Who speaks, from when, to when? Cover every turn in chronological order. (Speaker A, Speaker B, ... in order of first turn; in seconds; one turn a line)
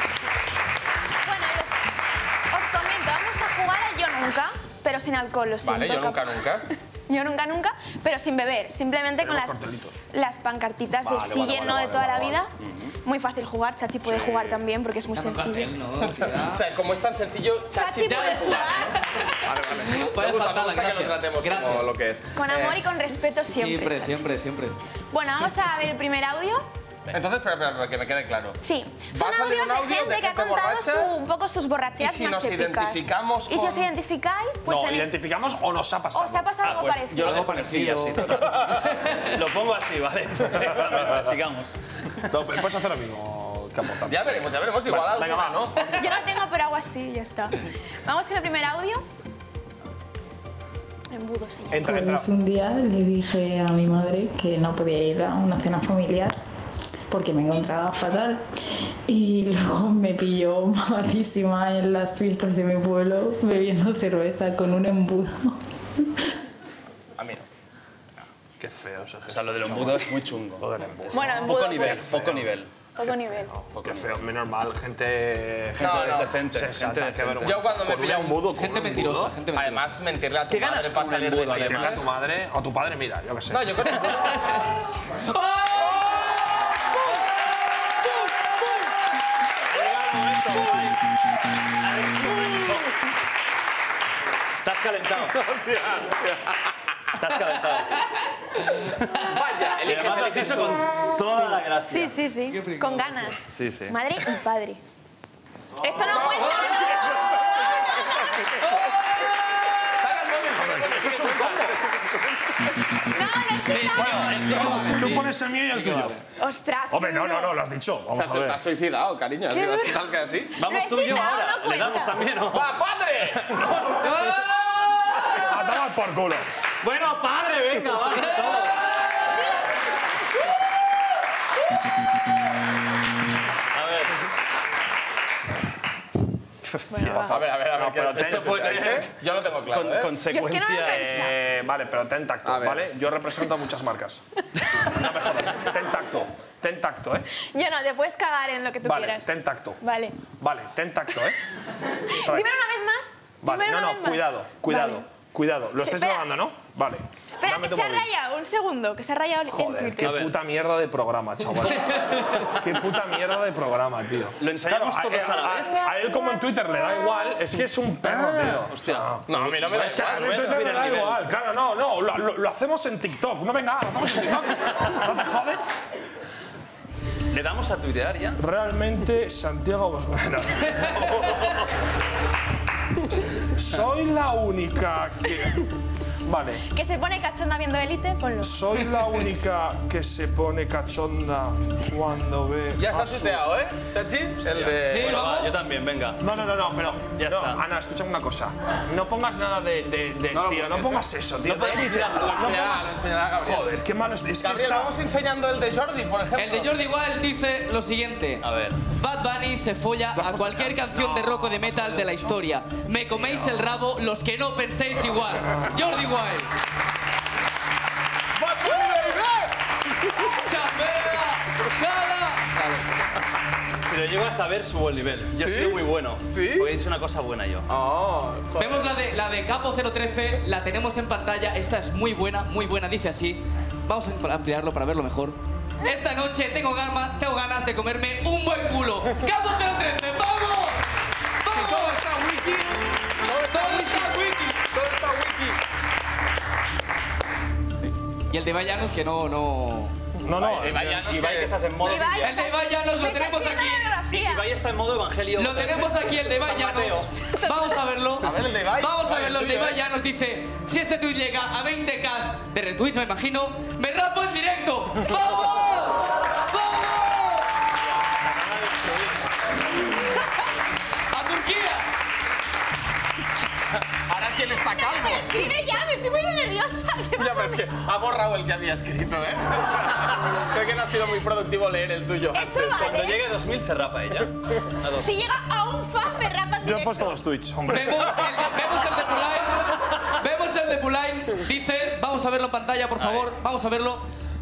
Speaker A: 1.2-1.8
Speaker A: 2.5-12.5
Speaker B: 5.6-6.7
Speaker C: 9.2-10.0
Speaker C: 11.0-12.4
Speaker D: 12.6-12.9
Speaker A: 13.1-15.8
Speaker C: 14.0-14.6
Speaker E: 15.1-16.6
Speaker B: 15.9-22.9
Speaker A: 17.7-19.0
Speaker E: 18.1-21.9
Speaker A: 22.4-24.2
Speaker E: 23.5-24.8
Speaker A: 25.1-26.7
Speaker B: 27.1-28.6
Speaker A: 28.6-35.2
Speaker B: 29.1-31.1
Speaker B: 32.0-33.9
Speaker C: 34.6-36.5
Speaker A: 36.1-37.9
Speaker D: 36.6-41.7
Speaker C: 37.2-37.6
Speaker C: 38.3-38.6
Speaker C: 40.5-41.3
Speaker C: 42.3-46.2
Speaker B: 44.1-46.1
Speaker A: 45.9-49.0
Speaker A: 51.1-51.9
Speaker C: 51.7-52.3
Speaker F: 51.8-56.4
Speaker F: 57.1-58.5
Speaker F: 59.1-65.6
Speaker B: 67.2-67.4
Speaker C: 68.6-72.5
Speaker D: 69.3-72.7
Speaker A: 71.1-72.2
Speaker A: 73.0-73.5
Speaker D: 73.7-74.2
Speaker C: 73.7-79.4
Speaker B: 75.8-76.3
Speaker D: 75.8-77.8
Speaker B: 77.4-78.5
Speaker E: 78.5-79.9
Speaker B: 79.5-82.1
Speaker D: 80.5-82.1
Speaker C: 81.5-84.1
Speaker B: 83.5-84.5
Speaker E: 85.5-85.9
Speaker D: 89.7-91.0
Speaker D: 91.8-92.9
Speaker D: 94.6-95.4
Speaker B: 95.4-96.5
Speaker D: 97.2-98.1
Speaker B: 99.2-100.8
Speaker D: 99.8-102.3
Speaker A: 101.8-104.8
Speaker E: 102.5-103.2
Speaker D: 103.5-104.0
Speaker A: 105.8-108.2
Speaker B: 106.0-108.3
Speaker E: 106.3-106.8
Speaker B: 109.9-112.2
Speaker C: 110.6-111.8
Speaker A: 113.1-114.4
Speaker E: 113.6-116.2
Speaker C: 114.0-116.2
Speaker B: 114.6-114.9
Speaker A: 116.4-117.6
Speaker C: 116.9-118.6
Speaker B: 118.1-120.6
Speaker A: 119.5-122.3
Speaker D: 120.6-122.8
Speaker B: 122.5-123.7
Speaker E: 124.0-125.1
Speaker C: 125.4-126.5
Speaker D: 126.8-128.9
Speaker E: 128.2-128.6
Speaker D: 133.7-134.1
Speaker C: 136.7-139.0
Speaker A: 136.9-137.3
Speaker B: 137.1-140.2
Speaker D: 137.9-139.1
Speaker D: 139.7-141.3
Speaker A: 140.2-141.4
Speaker C: 140.8-144.2
Speaker B: 142.4-142.9
Speaker C: 144.8-147.3
Speaker A: 147.4-150.2
Speaker C: 148.8-149.8
Speaker C: 150.4-151.4
Speaker A: 152.1-155.1
Speaker C: 152.2-152.5
Speaker C: 153.4-158.1
Speaker A: 155.8-156.3
Speaker A: 157.3-160.2
Speaker C: 159.5-162.0
Speaker D: 160.0-160.4
Speaker D: 161.6-162.6
Speaker C: 162.5-175.6
Speaker D: 164.4-165.8
Speaker A: 165.7-166.4
Speaker D: 168.0-171.2
Speaker B: 169.3-170.8
Speaker D: 177.3-178.4
Speaker C: 178.4-181.6
Speaker C: 183.4-185.7
Speaker C: 186.2-186.7
Speaker A: 186.7-188.6
Speaker C: 188.4-193.5
Speaker B: 192.8-195.3
Speaker D: 194.5-196.2
Speaker E: 194.9-195.6
Speaker C: 196.2-204.9
Speaker D: 197.2-197.6
Speaker B: 200.3-201.1
Speaker D: 201.4-202.7
Speaker B: 202.2-203.7
Speaker B: 204.4-206.7
Speaker E: 206.4-216.5
Speaker D: 208.4-208.8
Speaker C: 210.2-212.2
Speaker D: 213.2-213.7
Speaker B: 218.4-219.5
Speaker E: 220.2-222.9
Speaker D: 223.8-227.7
Speaker B: 225.4-226.7
Speaker B: 227.7-228.9
Speaker E: 228.6-240.8
Speaker E: 241.4-242.1
Speaker B: 241.5-244.2
Speaker E: 243.5-244.7
Speaker B: 244.7-245.6
Speaker E: 248.3-249.9
Speaker C: 250.2-251.0
Speaker D: 250.4-252.4
Speaker B: 250.4-252.1
Speaker A: 251.8-254.5
Speaker E: 252.2-253.9
Speaker D: 254.1-257.1
Speaker E: 255.4-267.5
Speaker A: 257.2-257.8
Speaker B: 258.2-259.8
Speaker E: 271.1-271.9
Speaker B: 274.1-275.7
Speaker A: 274.6-277.7
Speaker B: 277.2-282.8
Speaker A: 282.3-283.4
Speaker D: 282.6-285.1
Speaker A: 284.9-287.2
Speaker C: 286.6-288.5
Speaker E: 287.7-294.1
Speaker D: 293.0-293.3